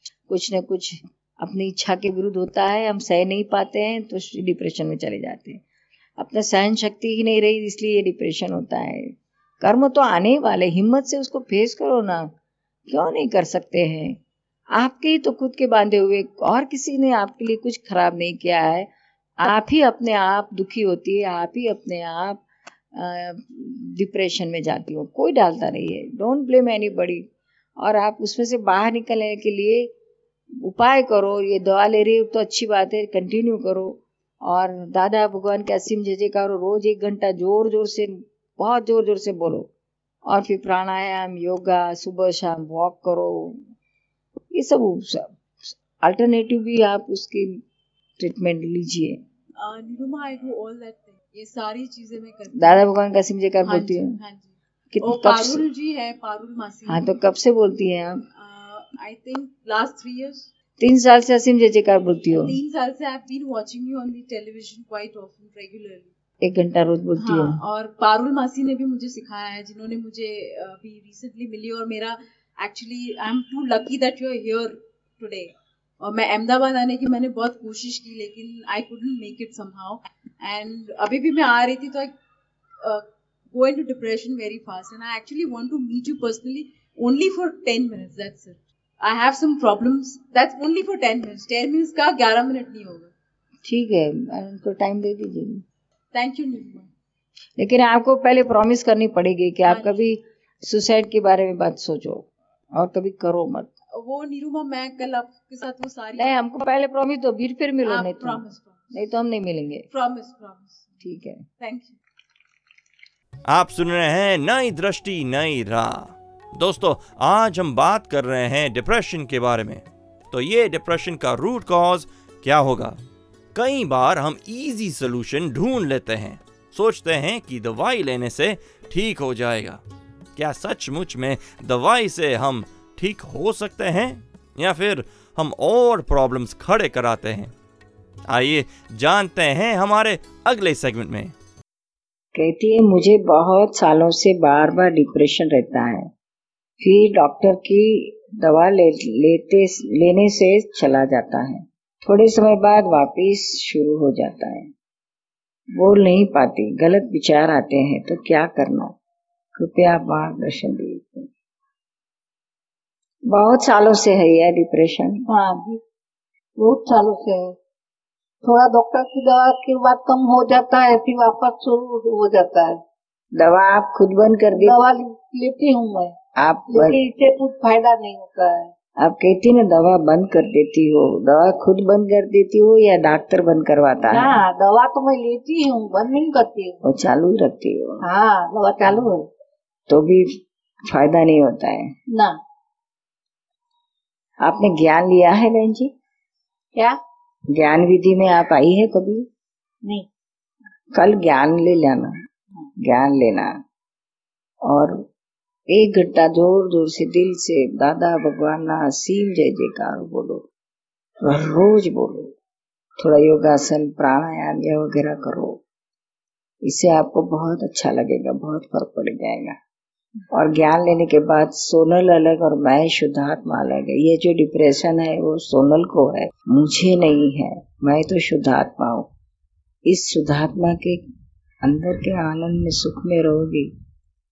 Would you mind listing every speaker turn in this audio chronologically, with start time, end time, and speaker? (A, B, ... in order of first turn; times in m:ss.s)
0:00.3-0:05.6 A
0:06.2-0:12.3 A
0:12.9-0:14.2 A
0:14.7-0:18.9 A
0:19.4-0:22.4 A
0:23.0-0:27.2 A
0:27.8-0:29.9 A
0:30.6-0:39.7 A
0:40.3-0:43.6 A
0:44.5-0:45.3 A
0:46.0-0:47.6 A
0:48.2-0:49.2 A
0:49.6-0:52.9 B
0:52.5-0:54.2 A
0:53.6-0:57.1 B
0:54.9-0:55.6 A
0:56.9-0:58.2 A
0:58.4-1:00.5 B
1:00.8-1:02.6 A
1:02.3-1:06.1 B
1:06.4-1:07.6 A
1:07.2-1:22.1 B
1:22.8-1:33.1 B
1:33.6-1:35.6 A
1:36.1-1:36.9 B
1:37.6-1:43.7 A
1:39.6-1:40.1 B
1:44.0-1:46.4 B
1:46.1-1:48.4 A
1:47.8-1:48.9 B
1:48.9-1:49.9 A
1:49.9-1:51.0 B
1:51.0-1:51.4 A
1:51.6-1:52.0 B
1:53.5-2:03.0 C
2:03.5-2:09.8 C
2:10.4-2:17.5 C
2:18.3-2:21.3 C
2:22.3-2:26.1 A
2:26.8-2:34.7 A
2:35.7-2:38.9 A
2:39.6-2:41.2 A
2:43.3-2:45.2 A
2:45.3-2:45.8 D
2:46.6-2:47.5 D
2:48.4-2:52.8 D
2:53.4-2:54.8 A
2:54.5-2:56.1 D
2:56.4-2:57.0 A
2:56.7-2:58.7 D
2:59.0-3:04.4 A
3:04.1-3:06.8 D
3:06.8-3:08.0 A
3:08.0-3:09.3 D
3:09.9-3:10.2 A
3:10.9-3:11.8 A
3:12.1-3:12.4 D
3:14.4-3:15.9 A
3:17.5-3:19.2 A
3:20.9-3:22.1 A
3:22.8-3:23.5 A
3:24.6-3:25.0 A
3:25.7-3:30.4 A
3:31.2-3:32.3 A
3:33.0-3:35.6 A
3:36.6-3:39.5 A
3:40.3-3:49.1 A
3:49.8-3:51.0 A
3:51.6-3:53.7 A